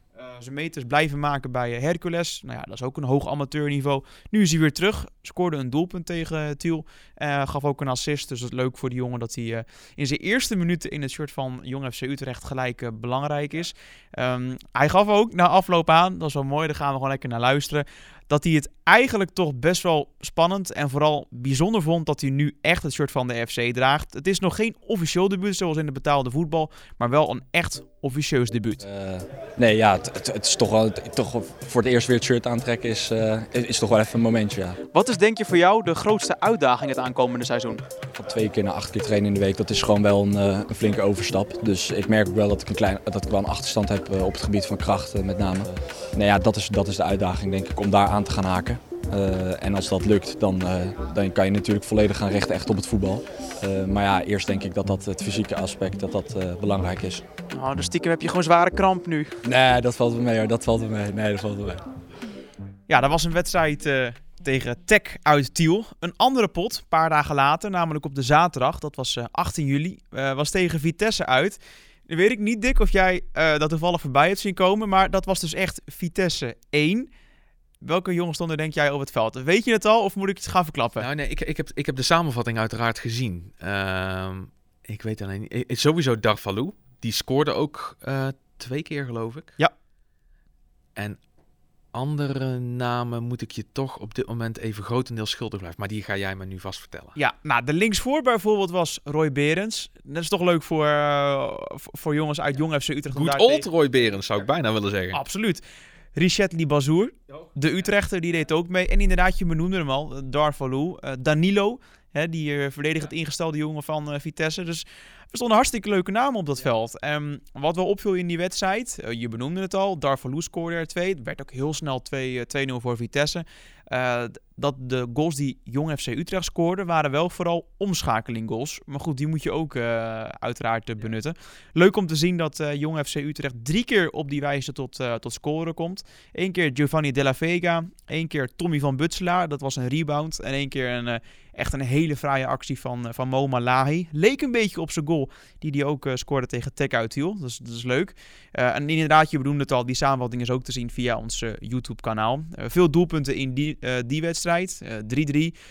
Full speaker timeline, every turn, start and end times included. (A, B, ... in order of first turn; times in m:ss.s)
0:00.1-0:28.8 A
0:28.8-0:34.8 B
0:34.9-0:37.8 A
0:38.2-0:57.2 B
0:57.5-0:59.3 A
0:59.4-1:01.8 B
1:02.9-1:17.1 A
1:17.8-1:21.0 A
1:21.0-1:29.6 C
1:31.9-1:37.2 C
1:37.2-1:43.7 A
1:43.1-1:45.2 C
1:45.1-1:45.6 A
1:46.1-2:35.5 A